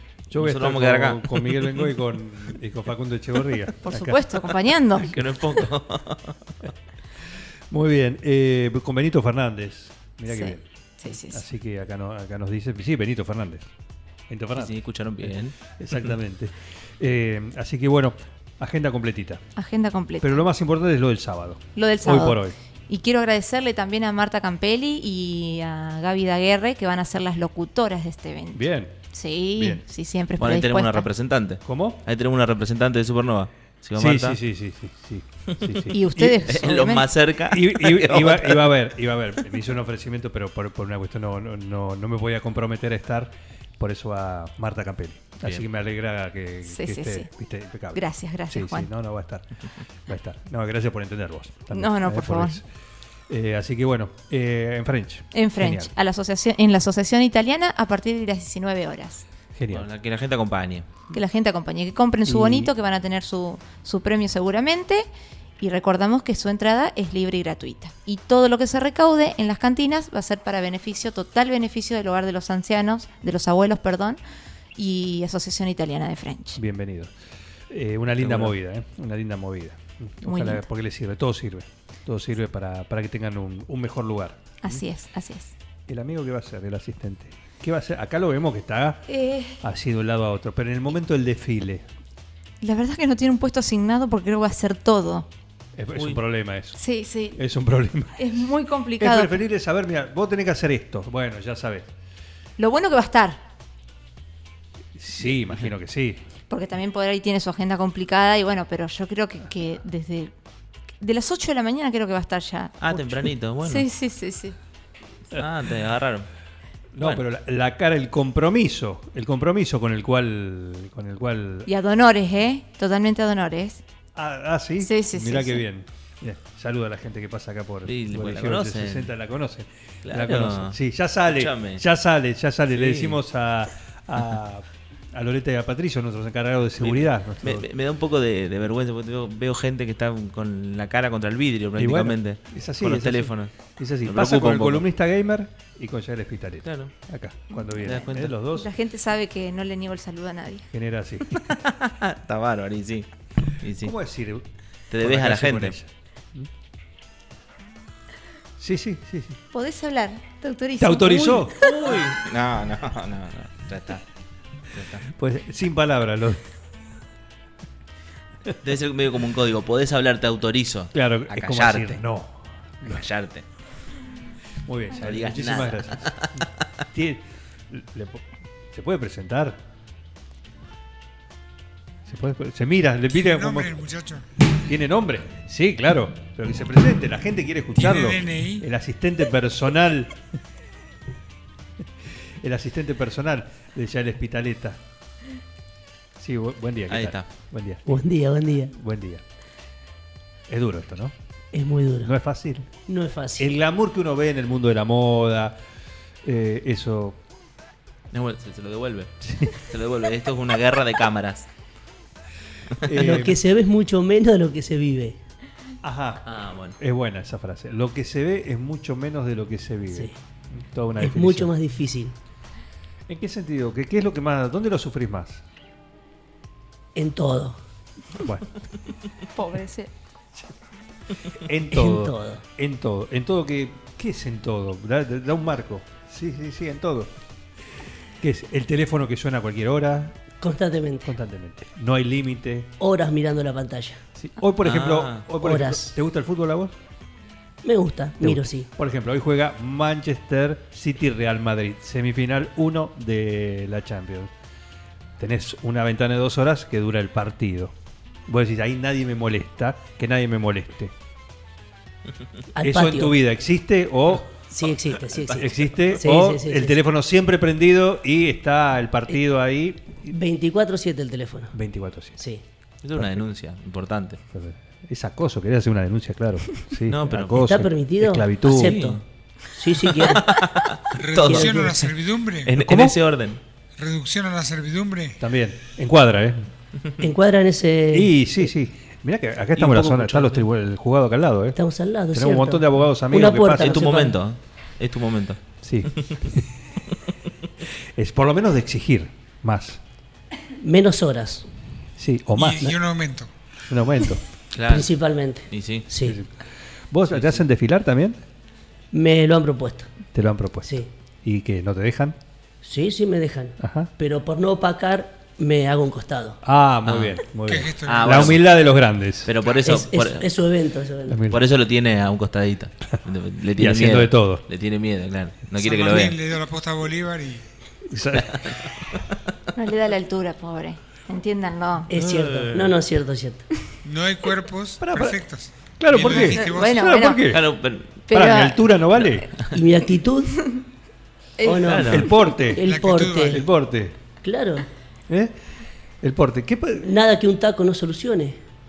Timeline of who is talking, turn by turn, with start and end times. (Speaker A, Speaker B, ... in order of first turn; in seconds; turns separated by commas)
Speaker A: 0.3-4.8, Speaker B: 0.4-1.9, Speaker C: 3.9-5.1, Speaker B: 5.0-6.4, Speaker A: 7.7-13.7, Speaker C: 10.3-11.4, Speaker A: 14.3-19.4, Speaker B: 14.6-15.6, Speaker C: 19.6-20.4, Speaker A: 20.2-22.6, Speaker C: 21.8-31.1, Speaker A: 28.5-28.9, Speaker A: 29.6-29.8, Speaker B: 30.4-34.4, Speaker A: 31.6-32.0, Speaker A: 34.0-36.6, Speaker C: 35.9-37.1, Speaker B: 36.5-38.7, Speaker A: 37.5-49.5, Speaker C: 46.7-47.3, Speaker C: 47.9-48.9, Speaker A: 50.1-52.7, Speaker C: 51.7-52.6, Speaker A: 53.3-55.9, Speaker C: 55.3-59.3, Speaker A: 59.5-59.9, Speaker B: 59.7-60.9, Speaker C: 61.1-65.1, Speaker A: 62.3-62.7, Speaker C: 65.6-74.2, Speaker C: 74.8-76.6, Speaker A: 76.6-77.1, Speaker A: 77.7-84.8, Speaker B: 78.2-78.5, Speaker C: 80.2-80.7, Speaker C: 84.6-85.5, Speaker A: 85.9-89.1, Speaker C: 89.1-89.6, Speaker A: 89.6-91.8, Speaker C: 92.6-95.3, Speaker A: 95.8-101.9, Speaker B: 96.0-96.2, Speaker C: 96.8-97.4, Speaker C: 98.2-99.4, Speaker C: 102.6-103.4, Speaker A: 105.0-106.2, Speaker B: 105.2-105.7, Speaker C: 106.5-110.3, Speaker C: 111.0-112.8, Speaker B: 112.8-113.9, Speaker A: 112.9-113.2, Speaker C: 113.7-114.6, Speaker B: 115.3-116.3, Speaker A: 116.9-121.7, Speaker C: 121.7-123.8, Speaker A: 124.2-137.7, Speaker C: 124.8-125.6, Speaker B: 127.9-129.1, Speaker B: 130.1-131.8, Speaker B: 132.7-133.2, Speaker B: 136.8-143.5, Speaker A: 141.8-148.7, Speaker B: 144.1-144.8, Speaker B: 146.7-146.9, Speaker B: 147.8-148.3, Speaker C: 148.5-150.7, Speaker A: 150.7-151.4, Speaker B: 151.5-153.9, Speaker A: 153.8-154.4, Speaker B: 154.9-155.8, Speaker A: 155.0-156.5, Speaker A: 158.6-159.4, Speaker C: 159.5-161.7, Speaker A: 160.8-162.0, Speaker B: 161.6-164.0, Speaker B: 164.7-165.1, Speaker A: 165.1-166.4, Speaker B: 168.6-172.0, Speaker A: 170.9-173.1, Speaker B: 172.8-173.4, Speaker A: 174.7-179.6, Speaker B: 174.9-176.4, Speaker A: 182.1-183.7, Speaker D: 183.1-184.3, Speaker A: 184.6-190.1, Speaker D: 187.8-188.7, Speaker A: 192.4-194.8, Speaker A: 196.2-197.9, Speaker B: 196.9-197.3, Speaker E: 197.9-198.7, Speaker A: 198.7-199.2, Speaker A: 200.5-201.1, Speaker E: 201.5-202.1, Speaker A: 202.0-202.7, Speaker E: 202.9-203.5, Speaker A: 203.4-205.6, Speaker A: 206.2-207.2, Speaker B: 208.1-211.5, Speaker A: 209.2-209.6, Speaker A: 212.8-213.4, Speaker E: 212.9-215.2, Speaker A: 215.8-221.5, Speaker B: 216.3-216.8, Speaker E: 221.0-222.2, Speaker A: 223.1-225.4, Speaker E: 226.9-227.6, Speaker A: 228.2-228.5, Speaker C: 229.3-229.9, Speaker A: 231.3-237.1, Speaker E: 231.7-232.4, Speaker A: 238.2-240.2, Speaker E: 240.4-241.1, Speaker A: 241.0-242.7, Speaker E: 242.8-244.0, Speaker A: 244.2-246.7, Speaker B: 244.6-245.3, Speaker E: 245.4-245.9, Speaker E: 247.6-248.7, Speaker A: 248.2-254.3, Speaker A: 255.2-257.7, Speaker A: 258.3-260.9, Speaker E: 262.5-263.2, Speaker A: 262.6-264.3, Speaker E: 264.5-266.8, Speaker B: 265.1-265.9, Speaker A: 265.4-270.2, Speaker E: 270.1-271.6, Speaker A: 271.5-272.2, Speaker E: 272.2-272.4, Speaker B: 272.8-274.2, Speaker A: 272.9-273.2, Speaker A: 274.3-278.8, Speaker B: 276.9-277.5, Speaker E: 277.4-279.0, Speaker B: 278.6-279.0, Speaker E: 279.5-280.3, Speaker B: 279.8-281.6, Speaker D: 281.0-282.6, Speaker E: 281.2-281.9, Speaker B: 282.5-283.4, Speaker A: 282.6-283.0, Speaker D: 283.8-285.2, Speaker A: 285.2-286.5, Speaker E: 287.0-288.1, Speaker A: 287.9-291.6, Speaker B: 289.6-290.4, Speaker E: 291.6-294.2, Speaker A: 292.1-293.8, Speaker B: 293.6-295.4, Speaker A: 295.6-296.5, Speaker A: 298.0-299.8, Speaker E: 300.6-301.5, Speaker A: 302.0-302.7, Speaker D: 302.4-303.3, Speaker A: 303.7-304.2, Speaker B: 304.5-305.0, Speaker E: 304.7-306.2, Speaker B: 305.5-305.9, Speaker A: 306.0-306.3, Speaker A: 306.9-308.2, Speaker B: 307.1-307.4, Speaker E: 308.9-309.9, Speaker A: 310.1-312.2, Speaker E: 310.6-310.9, Speaker E: 312.6-316.4, Speaker A: 313.6-313.9, Speaker A: 316.4-319.3, Speaker B: 316.8-317.2, Speaker D: 317.4-318.4, Speaker B: 317.9-318.4, Speaker B: 319.3-320.3, Speaker E: 319.6-321.2, Speaker A: 321.1-321.5, Speaker B: 321.3-326.2, Speaker A: 323.6-324.4, Speaker D: 325.6-327.4, Speaker A: 327.9-328.6, Speaker B: 328.3-328.6, Speaker C: 329.6-331.9, Speaker E: 331.9-333.5, Speaker A: 331.9-332.8, Speaker D: 333.8-336.7, Speaker A: 334.8-335.3, Speaker A: 335.8-337.5, Speaker C: 336.3-337.2, Speaker B: 337.3-337.9, Speaker C: 338.1-338.7, Speaker A: 338.1-339.3, Speaker B: 339.0-339.5, Speaker E: 339.5-340.5, Speaker E: 341.4-343.4, Speaker B: 341.6-342.1, Speaker A: 341.9-342.6, Speaker D: 342.6-343.4, Speaker A: 343.3-344.0, Speaker E: 344.2-344.7, Speaker A: 346.0-346.9, Speaker E: 346.8-348.4